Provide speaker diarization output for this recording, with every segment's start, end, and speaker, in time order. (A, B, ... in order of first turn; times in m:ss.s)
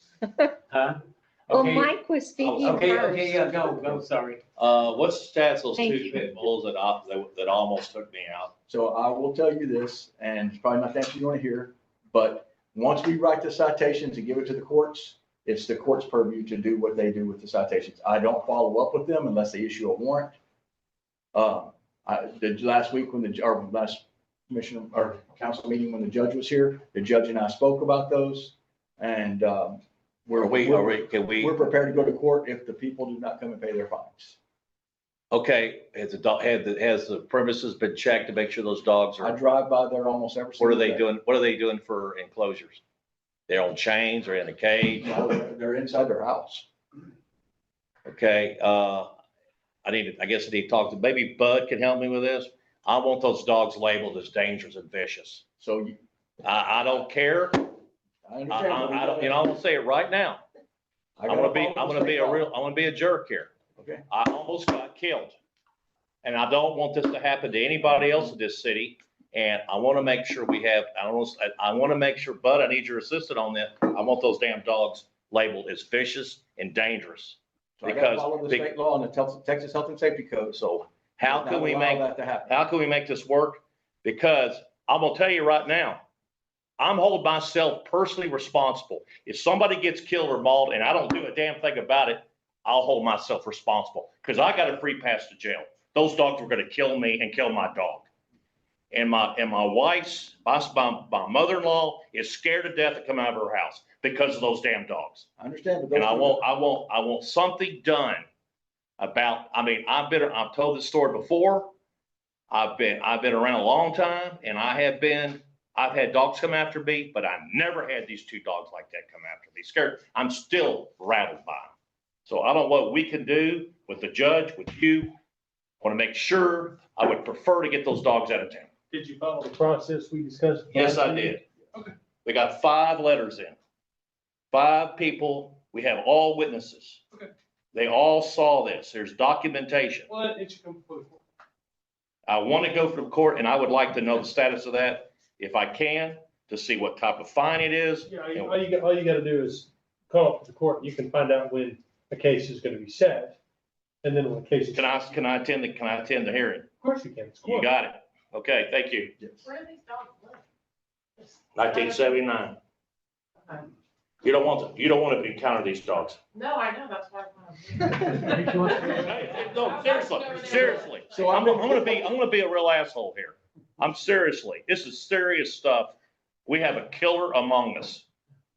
0:00.7-0:01.0 A
0:01.5-0:01.9 A
0:01.5-0:03.4 B
0:02.4-0:03.1 C
0:02.5-0:04.4 A
0:04.6-0:08.5 C
0:05.8-0:06.4 B
0:08.7-0:20.4 D
0:21.3-0:34.4 D
0:30.4-0:31.5 C
0:35.3-0:39.4 C
0:39.2-0:41.0 D
0:40.6-0:42.8 C
0:43.5-0:45.1 C
0:45.0-0:46.7 D
0:48.0-0:49.1 C
0:49.8-0:55.4 C
0:55.6-0:56.0 D
0:56.4-0:57.7 C
0:58.2-0:59.5 D
0:58.5-1:00.4 C
1:01.2-1:02.4 D
1:01.3-1:03.5 C
1:03.8-1:04.0 D
1:04.1-1:05.3 C
1:06.2-1:18.7 C
1:17.8-1:20.6 D
1:20.5-1:26.0 C
1:21.2-1:22.6 D
1:26.8-1:38.0 C
1:38.9-1:45.2 C
1:45.4-1:46.4 D
1:45.9-1:48.2 C
1:49.0-1:51.7 C
1:52.5-2:01.7 C
2:02.2-2:05.1 C
2:05.8-2:08.7 C
2:08.9-2:11.9 E
2:10.7-2:11.4 C
2:12.2-2:13.6 C
2:14.5-2:17.0 C
2:17.7-2:20.1 C
2:20.1-2:21.2 E
2:22.3-2:28.6 C
2:28.1-2:33.4 E
2:34.0-2:35.1 E
2:34.7-2:36.7 C
2:36.8-2:37.7 E
2:37.4-2:39.1 C
2:39.4-2:40.4 F
2:41.6-2:42.6 C
2:41.7-2:42.1 F
2:44.2-2:46.2 C
2:46.3-2:51.2 F
2:48.6-2:49.4 E
2:49.0-2:55.9 C
2:51.1-2:52.1 D
2:56.4-2:58.0 C